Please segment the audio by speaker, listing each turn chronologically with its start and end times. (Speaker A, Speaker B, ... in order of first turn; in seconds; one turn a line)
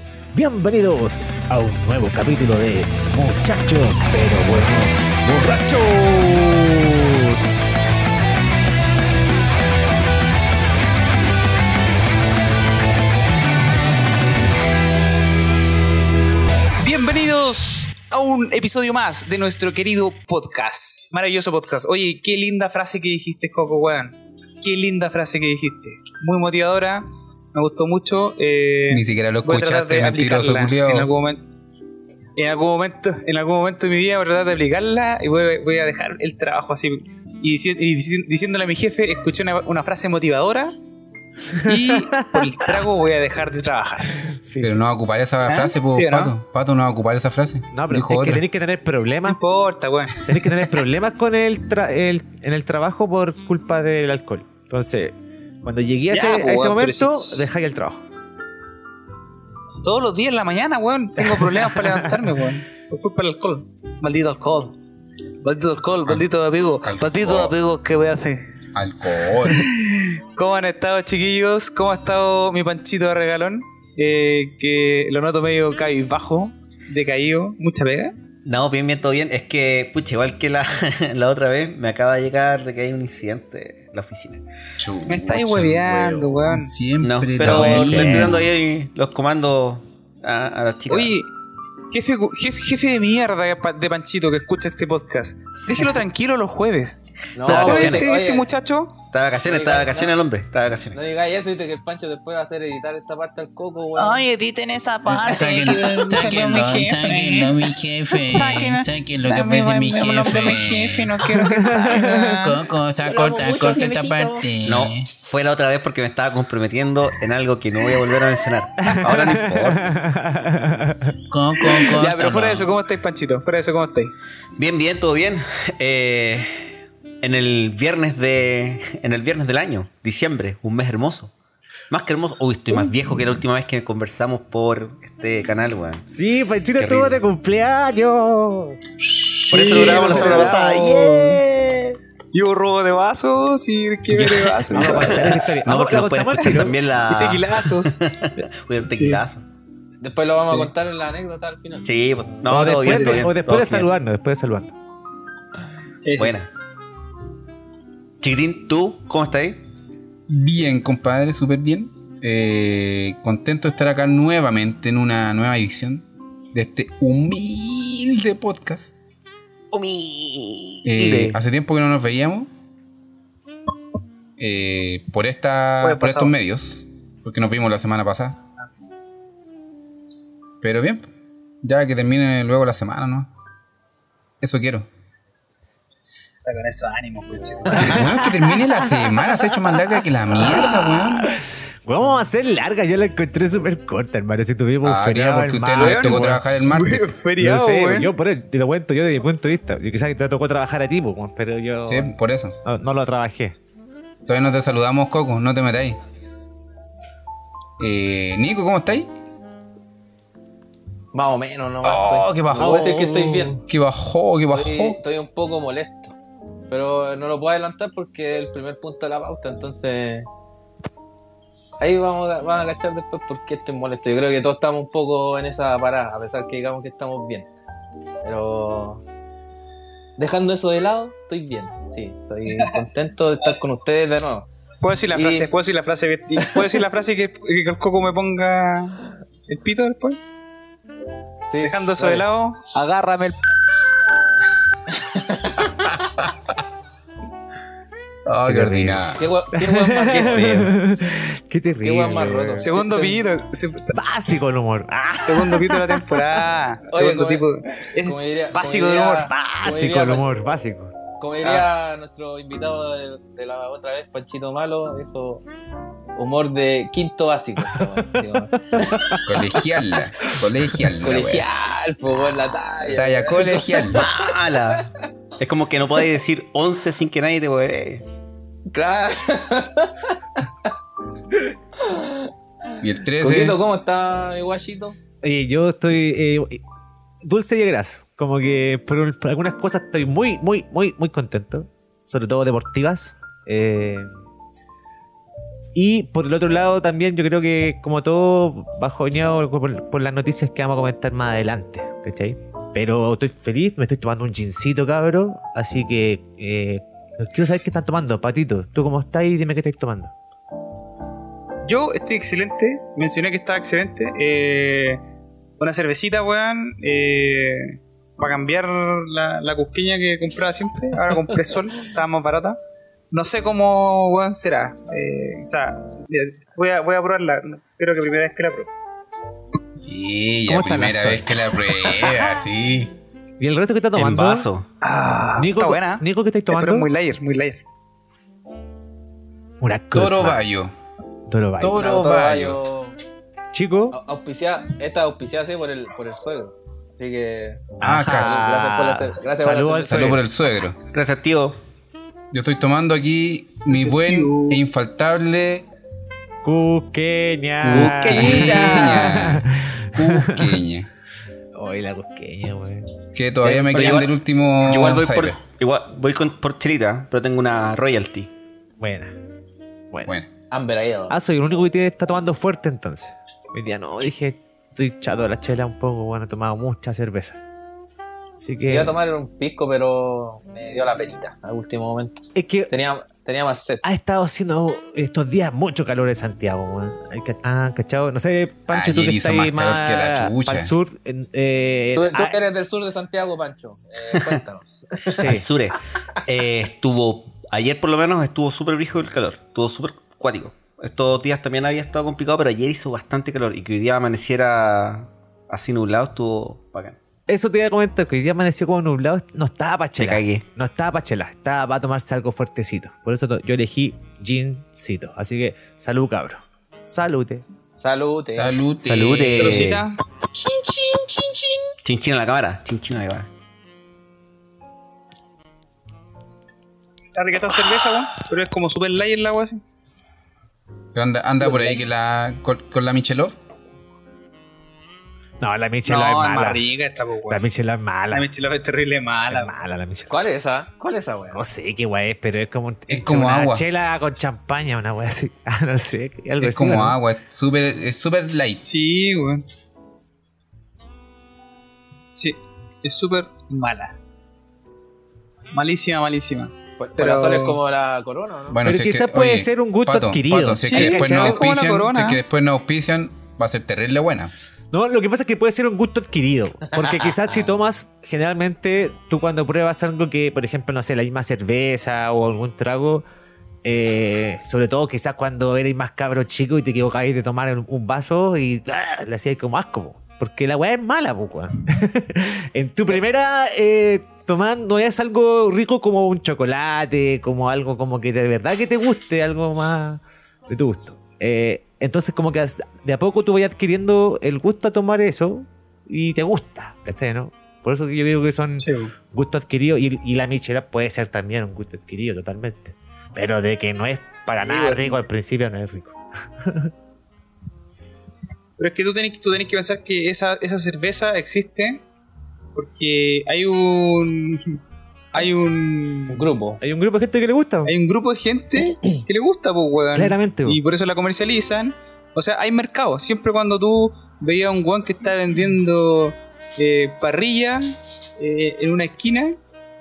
Speaker A: 0.3-7.5
Speaker B: 16.8-31.4
Speaker C: 28.9-31.1
Speaker B: 32.4-40.7
Speaker A: 41.6-42.8
Speaker B: 41.6-44.2
Speaker A: 44.2-44.8
Speaker C: 44.6-48.4
Speaker B: 45.5-46.3
Speaker A: 47.7-49.4
Speaker B: 49.2-50.2
Speaker A: 50.2-58.0
Speaker B: 56.1-57.5
Speaker B: 59.8-64.8
Speaker A: 61.2-62.3
Speaker B: 65.4-68.5
Speaker C: 66.8-67.5
Speaker C: 68.8-69.7
Speaker B: 69.4-78.2
Speaker D: 78.4-84.4
Speaker C: 84.8-88.4
Speaker B: 85.1-86.7
Speaker D: 87.0-91.2
Speaker A: 87.4-88.4
Speaker B: 90.9-91.3
Speaker B: 91.9-97.0
Speaker E: 97.4-98.5
Speaker D: 97.4-98.2
Speaker B: 97.5-99.0
Speaker D: 99.1-101.0
Speaker E: 99.5-100.2
Speaker E: 100.9-104.3
Speaker B: 104.0-107.6
Speaker F: 105.0-115.1
Speaker B: 108.3-112.6
Speaker A: 111.9-112.2
Speaker E: 113.1-114.4
Speaker D: 114.6-119.8
Speaker A: 118.8-121.1
Speaker F: 121.3-122.4
Speaker B: 121.7-124.1
Speaker D: 122.1-122.7
Speaker D: 124.6-131.3
Speaker D: 131.9-136.1
Speaker A: 136.1-138.8
Speaker D: 136.8-137.2
Speaker B: 139.1-141.4
Speaker D: 139.4-142.0
Speaker E: 139.6-140.5
Speaker B: 142.3-145.3
Speaker D: 144.1-149.4
Speaker A: 144.7-146.8
Speaker B: 147.1-148.0
Speaker B: 148.9-149.2
Speaker E: 150.0-151.9
Speaker D: 151.8-153.9
Speaker A: 152.5-154.7
Speaker B: 152.8-153.2
Speaker B: 156.0-156.4
Speaker D: 156.2-156.5
Speaker D: 158.2-159.6
Speaker C: 160.3-168.9
Speaker D: 169.7-171.4
Speaker C: 170.8-172.5
Speaker C: 174.4-178.4
Speaker B: 175.8-176.3
Speaker C: 180.6-181.1
Speaker C: 181.6-183.3
Speaker C: 184.4-184.9
Speaker B: 186.4-188.2
Speaker A: 187.7-189.8
Speaker C: 187.7-191.3
Speaker A: 190.3-196.4
Speaker C: 194.8-197.1
Speaker B: 195.8-198.1
Speaker A: 197.4-203.6
Speaker C: 201.8-202.6
Speaker C: 204.3-206.0
Speaker C: 207.8-209.1
Speaker E: 211.1-213.6
Speaker C: 211.8-213.0
Speaker A: 212.6-213.6
Speaker C: 213.7-215.0
Speaker E: 214.5-216.2
Speaker E: 216.7-220.3
Speaker E: 221.8-227.5
Speaker E: 228.2-229.0
Speaker E: 230.2-234.5
Speaker B: 234.8-240.2
Speaker E: 235.1-235.5
Speaker E: 236.4-236.8
Speaker E: 241.5-242.3
Speaker B: 241.6-243.4
Speaker E: 245.0-245.6
Speaker C: 248.3-249.3
Speaker A: 248.4-252.7
Speaker E: 249.2-250.6
Speaker D: 250.1-250.7
Speaker E: 251.8-253.3
Speaker B: 252.6-254.0
Speaker A: 253.9-256.3
Speaker B: 255.2-259.3
Speaker E: 256.9-260.3
Speaker A: 259.3-260.9
Speaker E: 261.2-265.4
Speaker E: 266.2-269.2
Speaker A: 267.7-269.2
Speaker C: 269.2-271.4
Speaker E: 271.0-274.8
Speaker C: 272.8-274.0
Speaker D: 273.9-274.9
Speaker D: 275.4-278.0
Speaker E: 278.7-280.2
Speaker E: 281.8-282.3
Speaker C: 282.8-283.6
Speaker E: 283.2-285.0
Speaker A: 285.2-286.6
Speaker A: 287.2-294.1
Speaker A: 295.8-310.1
Speaker B: 311.7-315.0
Speaker B: 315.6-322.6
Speaker B: 323.1-328.7
Speaker C: 329.9-332.9
Speaker D: 330.5-331.0
Speaker A: 330.5-332.1
Speaker A: 333.4-334.5
Speaker D: 333.9-334.7
Speaker B: 334.8-337.6
Speaker A: 335.4-336.9
Speaker A: 339.6-340.4
Speaker C: 339.9-340.7
Speaker A: 341.3-341.9
Speaker C: 341.6-342.6
Speaker E: 341.8-343.0
Speaker A: 343.5-344.0
Speaker E: 343.9-350.2
Speaker A: 347.8-350.2
Speaker C: 347.8-348.4
Speaker C: 349.9-350.8
Speaker D: 350.9-351.6
Speaker C: 352.3-355.7
Speaker B: 353.7-354.6
Speaker A: 356.4-360.6
Speaker C: 357.6-360.9
Speaker D: 357.7-359.3
Speaker A: 361.5-362.9
Speaker C: 363.1-365.4
Speaker D: 363.5-368.3
Speaker A: 368.8-369.1
Speaker E: 370.5-371.1
Speaker A: 371.1-377.4
Speaker A: 378.4-378.9
Speaker E: 378.7-383.8
Speaker A: 382.3-382.7
Speaker A: 383.8-392.4
Speaker C: 388.7-390.7
Speaker E: 391.9-395.2
Speaker D: 394.1-394.4
Speaker A: 395.1-395.4
Speaker D: 395.1-407.0
Speaker A: 407.3-417.4
Speaker D: 410.0-410.4
Speaker E: 417.8-418.6
Speaker C: 418.3-419.8
Speaker D: 418.8-419.9
Speaker B: 419.3-420.0
Speaker C: 420.6-421.3
Speaker D: 421.8-423.3
Speaker B: 427.1-429.6
Speaker C: 430.9-433.4
Speaker A: 435.4-436.6
Speaker B: 435.9-437.5
Speaker A: 437.3-438.3
Speaker B: 438.1-439.6
Speaker A: 439.3-440.2
Speaker E: 440.1-441.4
Speaker A: 441.3-447.0
Speaker C: 442.9-443.6
Speaker C: 446.4-448.6
Speaker B: 448.6-449.5
Speaker B: 452.1-454.0
Speaker B: 455.5-457.6
Speaker E: 456.8-458.6
Speaker C: 458.5-464.3
Speaker A: 458.6-461.5
Speaker B: 460.7-462.2
Speaker A: 464.7-473.1
Speaker A: 473.6-506.7
Speaker B: 498.6-498.9
Speaker B: 504.4-505.0
Speaker B: 508.6-511.8
Speaker B: 512.6-514.6
Speaker B: 515.1-516.3
Speaker E: 516.1-516.6
Speaker A: 516.6-517.7
Speaker B: 517.6-529.4
Speaker A: 519.9-520.6